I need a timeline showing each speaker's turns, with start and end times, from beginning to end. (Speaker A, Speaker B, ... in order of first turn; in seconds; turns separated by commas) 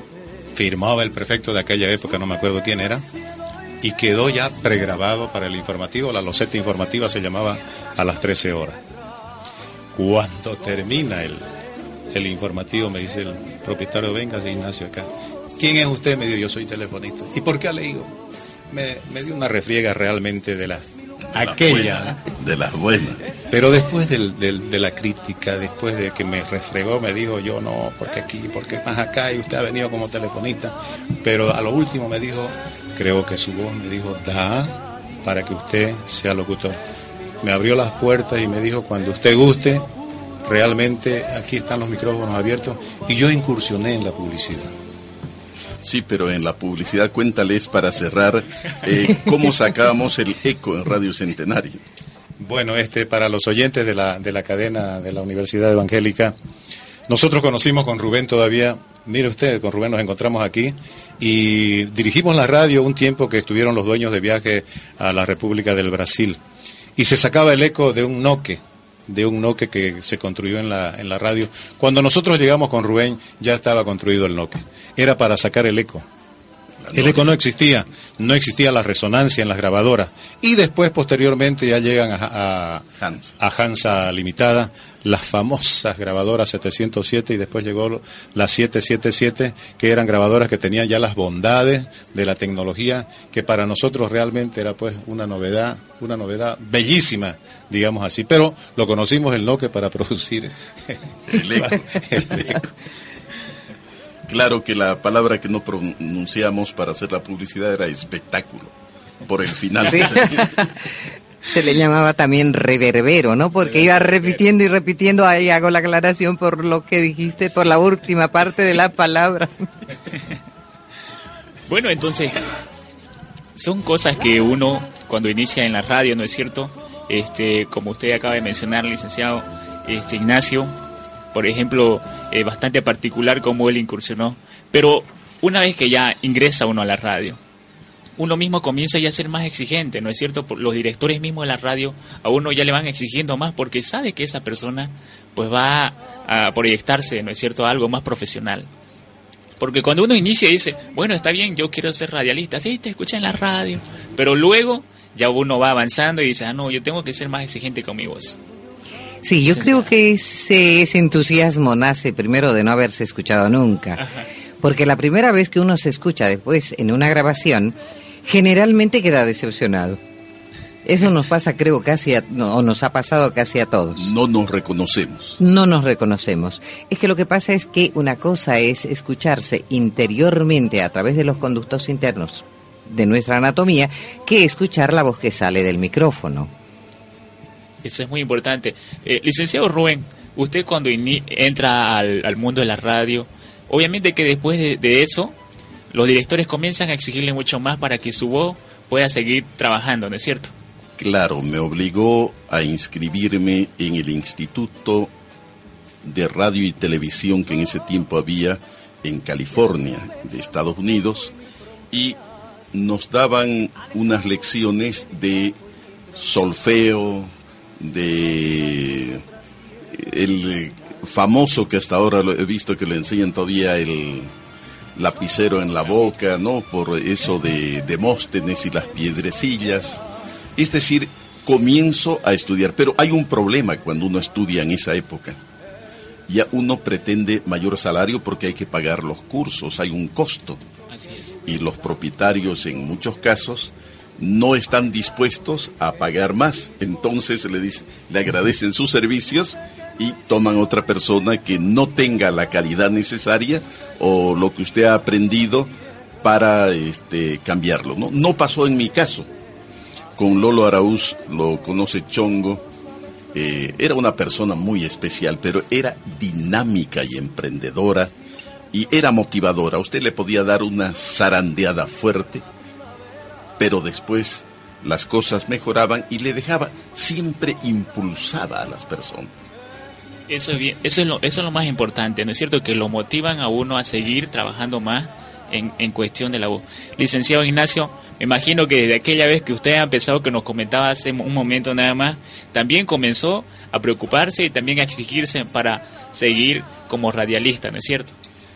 Speaker A: 0.6-3.0, Speaker A: 3.8-8.8, Speaker A: 9.9-11.4, Speaker A: 12.1-18.2, Speaker A: 18.7-22.2, Speaker B: 21.4-23.2, Speaker A: 23.5-36.8, Speaker A: 37.4-39.9, Speaker A: 40.5-44.7, Speaker B: 45.8-51.8, Speaker A: 52.4-56.4, Speaker A: 57.1-66.4, Speaker A: 67.0-76.1, Speaker B: 76.8-77.3, Speaker A: 76.9-82.9, Speaker B: 83.0-83.3, Speaker A: 83.4-102.7, Speaker B: 101.3-102.6, Speaker B: 104.3-108.7, Speaker B: 109.2-110.5, Speaker C: 109.9-110.8, Speaker C: 111.5-119.7, Speaker D: 121.7-122.5, Speaker D: 123.6-130.8, Speaker D: 131.3-137.4, Speaker D: 138.2-148.7, Speaker D: 149.6-158.4, Speaker C: 159.2-164.0, Speaker D: 159.5-159.9, Speaker C: 164.6-170.0, Speaker C: 170.8-174.1, Speaker B: 174.0-175.4, Speaker C: 175.4-186.5, Speaker D: 187.8-195.4, Speaker D: 195.9-200.5, Speaker B: 201.0-205.1, Speaker B: 206.0-211.3, Speaker B: 211.9-212.2, Speaker B: 212.7-215.6, Speaker B: 216.2-219.2, Speaker B: 219.9-224.3, Speaker B: 225.0-230.0, Speaker B: 230.6-235.4, Speaker B: 236.3-240.6, Speaker D: 240.9-241.4, Speaker B: 241.4-255.7, Speaker B: 256.2-259.3, Speaker B: 260.2-262.7, Speaker B: 263.3-268.1, Speaker B: 268.7-272.4, Speaker B: 273.6-279.3, Speaker D: 280.3-298.1